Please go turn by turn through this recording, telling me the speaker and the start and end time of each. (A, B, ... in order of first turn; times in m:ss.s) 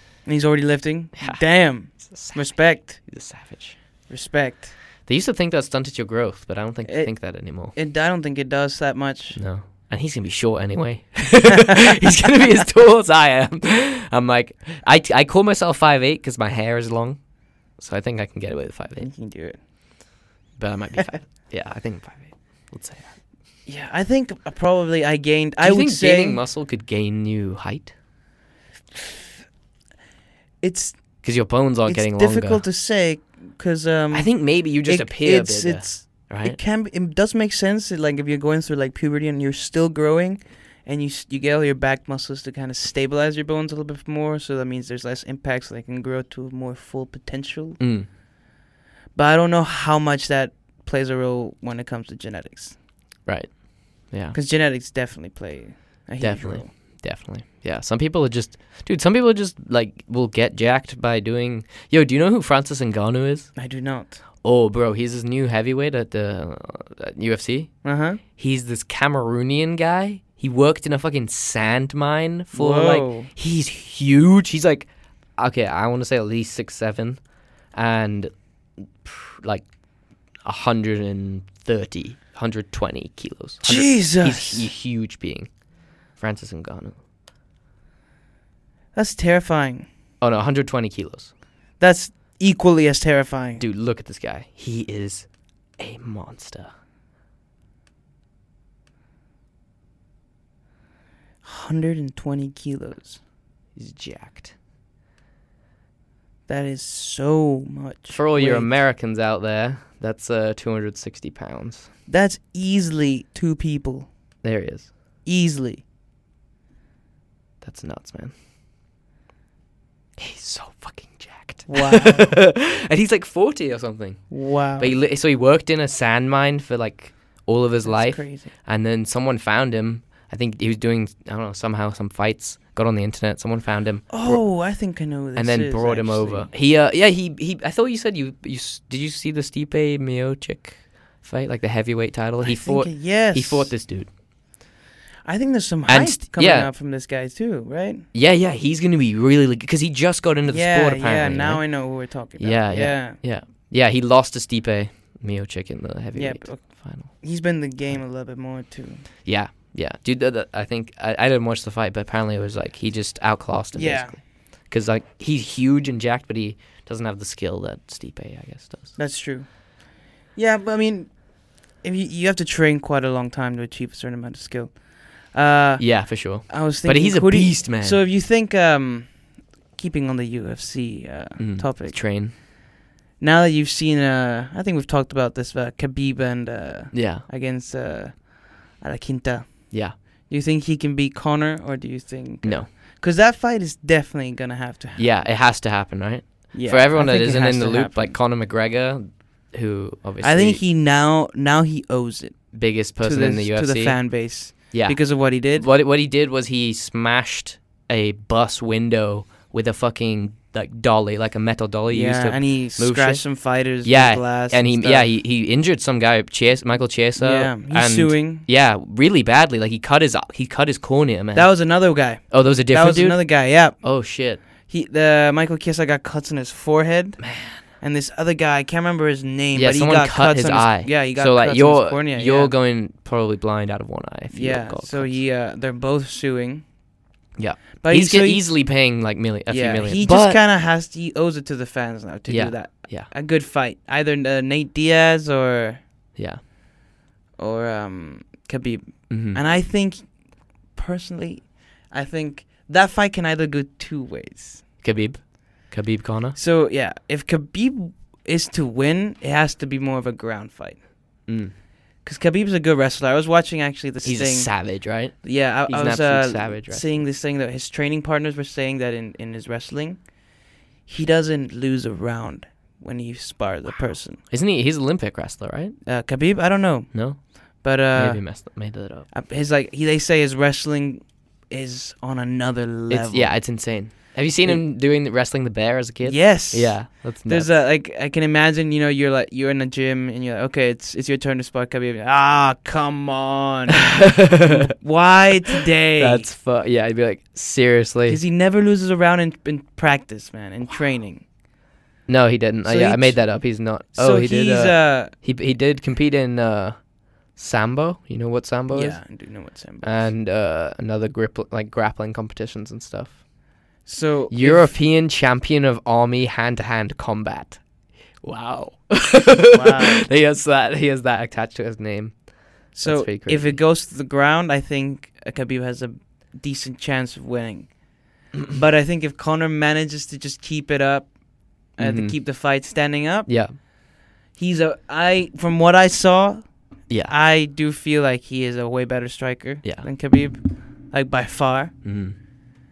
0:00.2-0:03.0 A
0:01.2-0:01.4 B
0:02.0-0:03.8 B
0:04.1-0:04.7 A
0:05.0-0:07.7 B
0:06.8-0:07.1 A
0:07.7-0:09.4 A
0:09.3-0:17.2 B
0:17.8-0:19.1 B
0:19.0-0:19.6 A
0:20.6-0:23.1 B
0:23.6-0:26.4 A
0:25.6-0:27.9 B
0:30.6-0:31.0 A
0:31.2-0:32.6 B
0:31.9-0:34.3 A
0:34.1-0:36.6 B
0:34.8-0:47.8 A
0:47.8-0:48.1 B
0:49.1-0:52.8 A
0:53.2-0:54.4 B
0:54.3-0:56.7 A
0:56.2-1:03.5 B
1:03.6-1:04.2 A
1:04.4-1:07.7 B
1:07.8-1:08.2 A
1:08.4-1:17.2 B
1:12.5-1:13.3 A
1:17.7-1:19.7 B
1:20.4-1:25.5 B
1:23.6-1:24.7 A
1:26.2-1:27.0 B
1:28.9-1:29.9 A
1:30.2-1:31.3 B
1:31.8-1:33.6 A
1:33.6-1:35.3 B
1:35.8-1:36.7 B
1:41.4-1:43.2 A
1:43.8-1:44.5 B
1:46.5-1:48.7 A
1:48.1-1:51.9 B
1:52.1-1:54.1 A
1:54.4-1:54.9 B
1:55.2-1:55.8 A
1:57.6-1:58.3 B
2:00.2-2:14.4 B
2:01.7-2:02.4 A
2:04.3-2:05.0 A
2:07.8-2:08.5 A
2:14.1-2:16.5 A
2:15.3-2:24.1 B
2:22.4-2:23.7 A
2:25.2-2:28.0 A
2:25.9-2:26.7 B
2:28.1-2:31.6 B
2:30.5-2:33.2 A
2:32.4-2:37.1 B
2:36.1-2:39.0 A
2:39.2-2:48.9 B
2:43.7-2:44.2 A
2:49.0-2:49.6 A
2:50.3-2:51.1 A
2:51.8-2:59.2 A
2:55.8-2:58.0 B
2:59.7-3:02.0 A
3:01.4-3:02.3 B
3:03.2-3:15.1 A
3:06.9-3:07.2 B
3:12.4-3:12.7 B
3:15.0-3:20.6 B
3:16.5-3:18.2 A
3:20.2-3:25.6 A
3:22.5-3:24.0 B
3:24.5-3:25.0 B
3:25.5-3:33.2 B
3:31.9-3:35.1 A
3:33.8-3:41.5 B
3:37.2-3:38.4 A
3:41.3-3:43.8 A
3:42.3-3:44.4 B
3:44.7-3:52.5 A
3:47.2-3:47.6 B
3:49.5-3:55.2 B
3:54.3-3:56.6 A
3:57.4-4:00.4 B
3:57.8-3:58.5 A
3:59.5-4:05.8 A
4:02.3-4:03.1 B
4:06.2-4:06.4 B
4:07.4-4:10.1 A
4:09.1-4:09.4 B
4:10.7-4:14.7 A
4:14.8-4:16.4 B
4:16.4-4:20.8 A
4:21.3-4:21.5 B
4:22.0-4:30.0 A
4:24.0-4:27.0 B
4:30.9-4:34.2 A
4:34.3-4:35.8 B
4:35.8-4:38.2 A
4:36.9-4:37.2 B
4:37.9-4:39.1 B
4:39.1-4:43.4 A
4:42.9-4:47.5 B
4:46.0-4:56.3 A
4:53.7-4:54.7 B
4:56.0-4:58.2 B
4:58.1-5:01.2 A
5:02.1-5:06.8 B
5:02.6-5:03.3 A
5:03.9-5:05.1 A
5:07.3-5:09.0 B
5:08.7-5:10.1 A
5:09.8-5:13.2 B
5:13.8-5:14.7 A
5:14.3-5:17.6 B
5:18.2-5:22.2 B
5:19.5-5:20.1 A
5:22.7-5:23.6 B
5:22.7-5:27.7 A
5:28.5-5:31.1 A
5:31.8-5:33.3 A
5:31.8-5:32.1 B
5:33.3-5:33.5 B
5:34.4-5:36.4 A
5:37.1-5:41.7 A
5:41.8-5:42.2 B